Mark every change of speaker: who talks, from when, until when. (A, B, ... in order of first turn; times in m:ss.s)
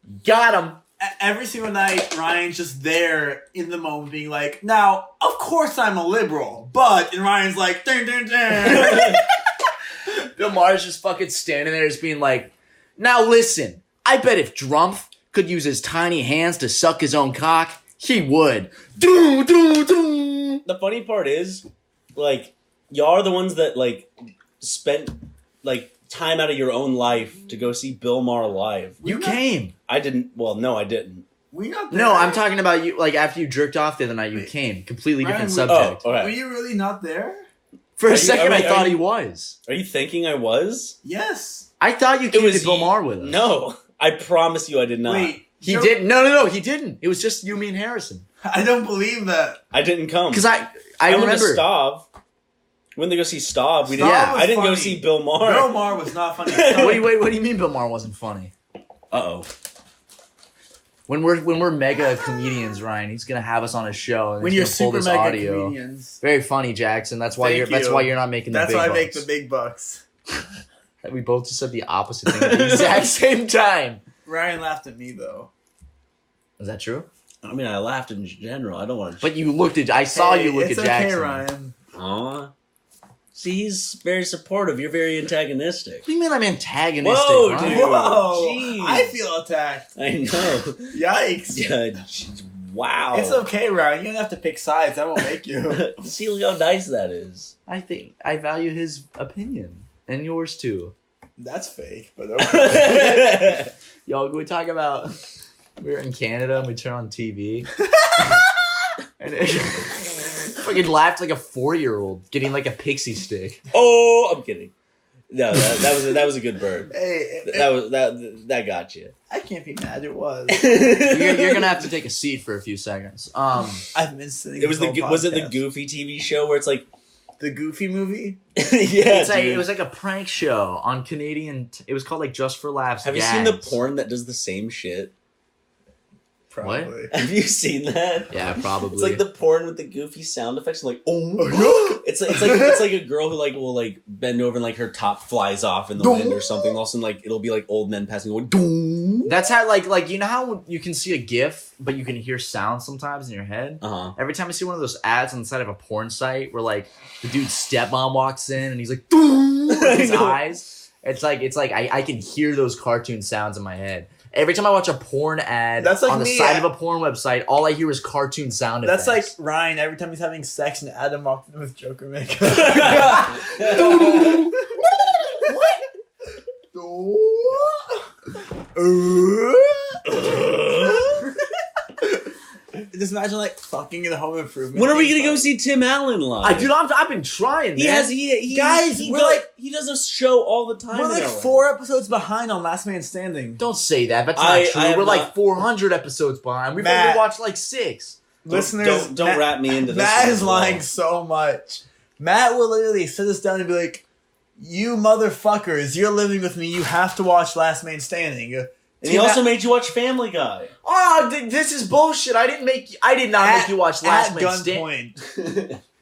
0:00.2-0:00.8 A
0:01.0-0:09.2 B
0:08.7-0:09.2 A
0:10.4-0:20.6 A
0:20.6-0:24.1 C
0:24.6-0:29.0 C
0:29.0-0:29.4 B
0:29.0-0:29.7 A
0:29.9-0:31.2 C
0:31.5-0:32.4 B
0:31.9-0:36.0 A
0:35.2-0:37.4 B
0:35.6-0:36.4 C
0:38.0-0:39.6 A
0:38.1-0:39.0 C
0:39.6-0:41.0 C
0:41.0-0:41.7 B
0:41.8-0:43.4 A
0:42.3-0:45.4 C
0:45.0-0:46.0 B
0:45.6-0:48.2 A
0:48.4-0:49.6 B
0:49.7-0:50.5 C
0:50.3-0:51.6 A
0:51.0-0:52.1 C
0:53.0-0:55.9 C
0:53.8-0:57.1 B
0:54.0-0:54.4 A
0:56.5-0:57.1 C
0:56.7-0:58.5 A
0:59.1-0:59.5 C
1:01.1-1:09.2 A
1:04.4-1:06.2 B
1:07.4-1:10.0 B
1:11.0-1:14.0 A
1:12.3-1:13.0 C
1:14.2-1:15.5 B
1:16.6-1:17.1 A
1:17.4-1:19.3 C
1:19.2-1:21.4 A
1:20.1-1:21.7 B
1:21.9-1:22.5 C
1:23.3-1:26.1 C
1:26.0-1:28.1 A
1:27.0-1:29.2 C
1:27.6-1:29.9 B
1:30.0-1:31.0 C
1:30.9-1:31.7 B
1:31.5-1:33.4 C
1:33.1-1:35.9 B
1:35.7-1:37.5 C
1:37.7-1:40.9 A
1:41.4-1:43.4 B
1:42.4-1:43.7 C
1:44.0-1:45.2 A
1:45.8-1:47.7 A
1:49.2-1:50.0 A
1:50.5-1:53.6 A
1:53.7-1:54.7 C
1:55.3-1:56.9 C
1:56.9-1:57.7 B
1:57.5-1:59.1 C
1:59.3-2:01.0 B
2:00.5-2:01.7 C
2:01.1-2:03.8 A
2:03.9-2:05.6 B
2:04.6-2:06.9 C
2:07.4-2:08.4 B
2:08.6-2:09.7 C
2:09.0-2:13.8 A
2:13.0-2:15.1 C
2:16.5-2:17.1 B
2:16.6-2:16.9 A
2:17.1-2:29.4 C
2:18.3-2:19.2 A
2:21.4-2:22.8 B
2:26.0-2:26.8 B
2:29.2-2:49.3 A
2:33.8-2:34.2 C
2:39.7-2:40.4 C
2:45.8-2:46.7 B
2:48.8-2:55.8 B
2:52.5-2:54.4 C
2:56.7-2:58.0 B
2:58.7-3:00.2 B
3:00.1-3:01.2 C
3:02.9-3:05.5 B
3:04.7-3:06.7 C
3:06.4-3:08.1 A
3:07.7-3:11.6 C
3:08.5-3:09.4 B
3:10.9-3:13.6 B
3:13.6-3:18.2 A
3:14.4-3:15.3 C
3:16.8-3:17.2 B
3:18.4-3:24.0 B
3:18.5-3:20.8 C
3:24.6-3:29.4 B
3:29.0-3:30.7 C
3:30.8-3:34.9 A
3:33.4-3:35.2 B
3:35.3-3:35.8 C